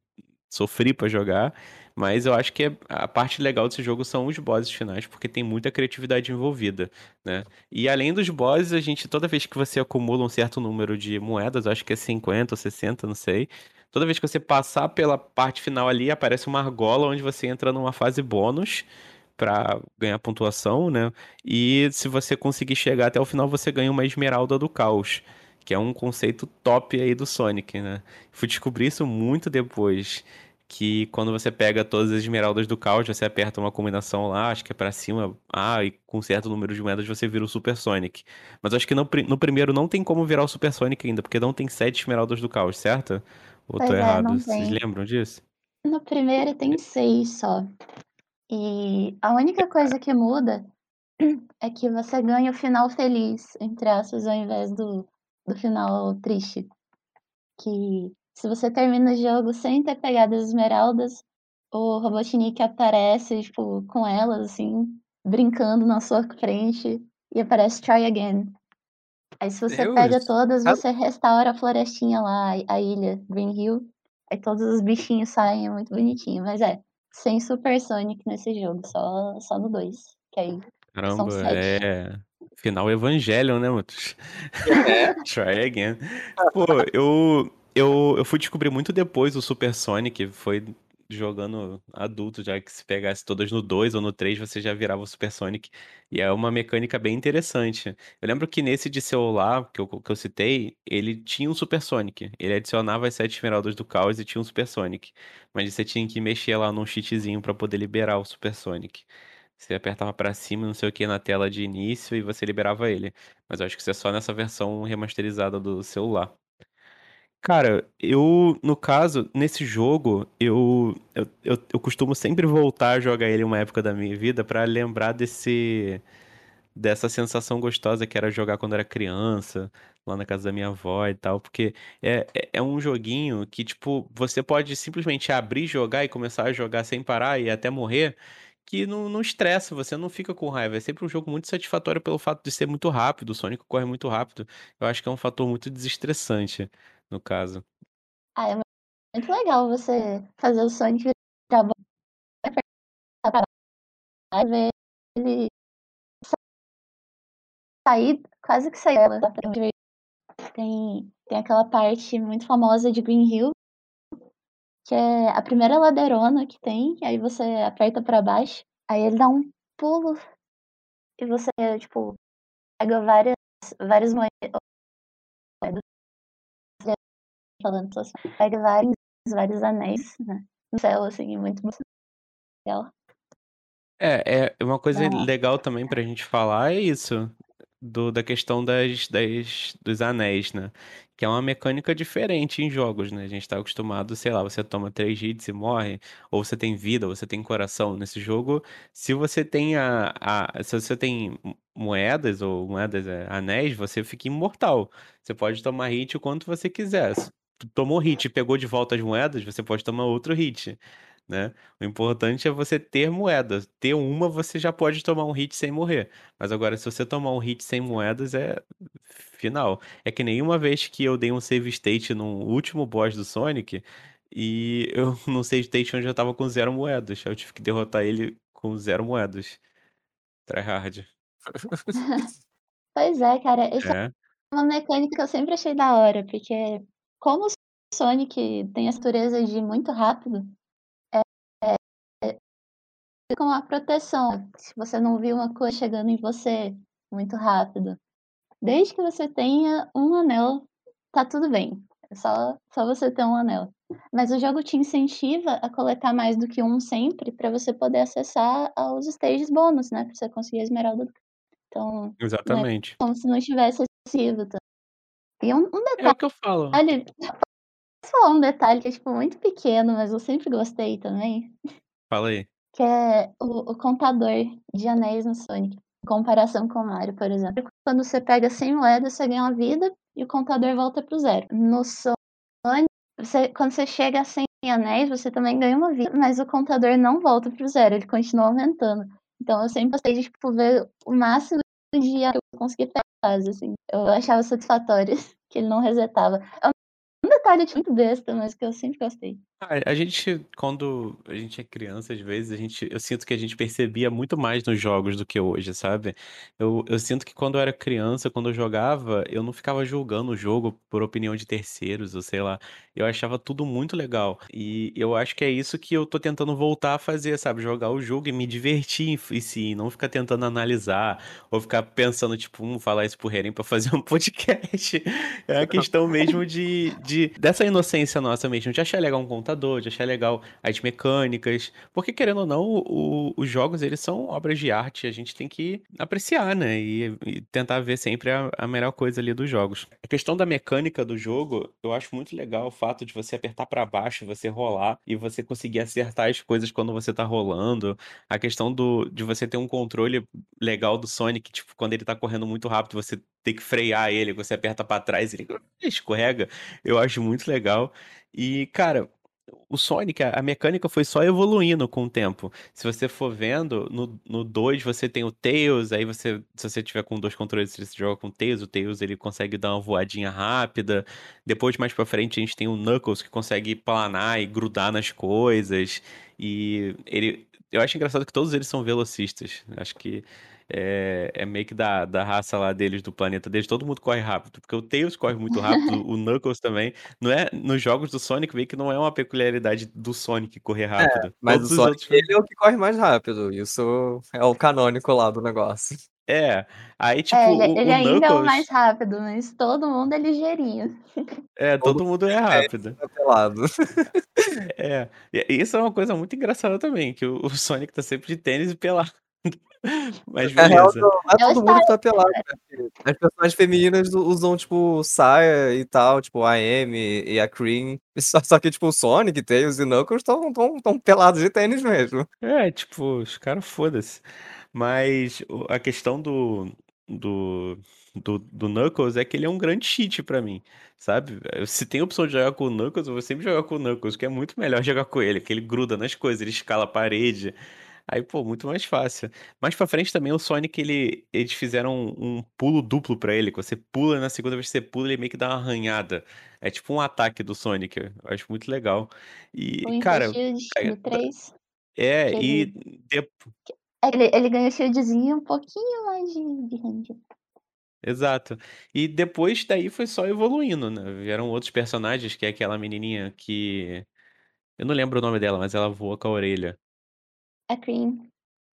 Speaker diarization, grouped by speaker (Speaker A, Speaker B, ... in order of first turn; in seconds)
Speaker A: 0.5-45.4, 80.9-116.3, 117.4-126.0, 126.7-147.7, 184.0-229.6, 230.5-231.1, 233.8-234.1, 262.2-263.0, 266.0-266.8, 272.1-272.5, 299.6-359.1, 359.7-392.3, 396.3-398.7, 401.6-403.0, 404.7-411.1, 422.4-437.5, 438.1-451.2, 452.0-453.3, 458.0-464.1, 464.8-466.8
Speaker B: 43.8-44.8, 45.9-47.6, 48.5-50.7, 51.2-56.7, 57.6-68.5, 69.4-81.8, 148.3-151.7, 154.3-155.5, 157.8-159.7, 160.5-163.5, 164.8-170.2, 171.2-172.2, 172.8-174.6, 177.6-181.8, 182.6-182.9, 184.9-185.3, 231.9-232.3, 232.9-233.9, 234.5-240.5, 241.1-242.4, 243.3-248.0, 248.6-261.1, 261.7-264.6, 265.4-266.2, 266.7-267.0, 268.1-271.5, 272.7-299.4, 397.3-400.9, 411.4-412.4, 449.8-451.5, 452.3-452.7, 454.0-457.2, 467.7-468.3
Speaker C: 69.7-70.8, 84.6-85.2, 231.5-231.9, 391.0-396.0, 401.8-404.6, 410.6-422.2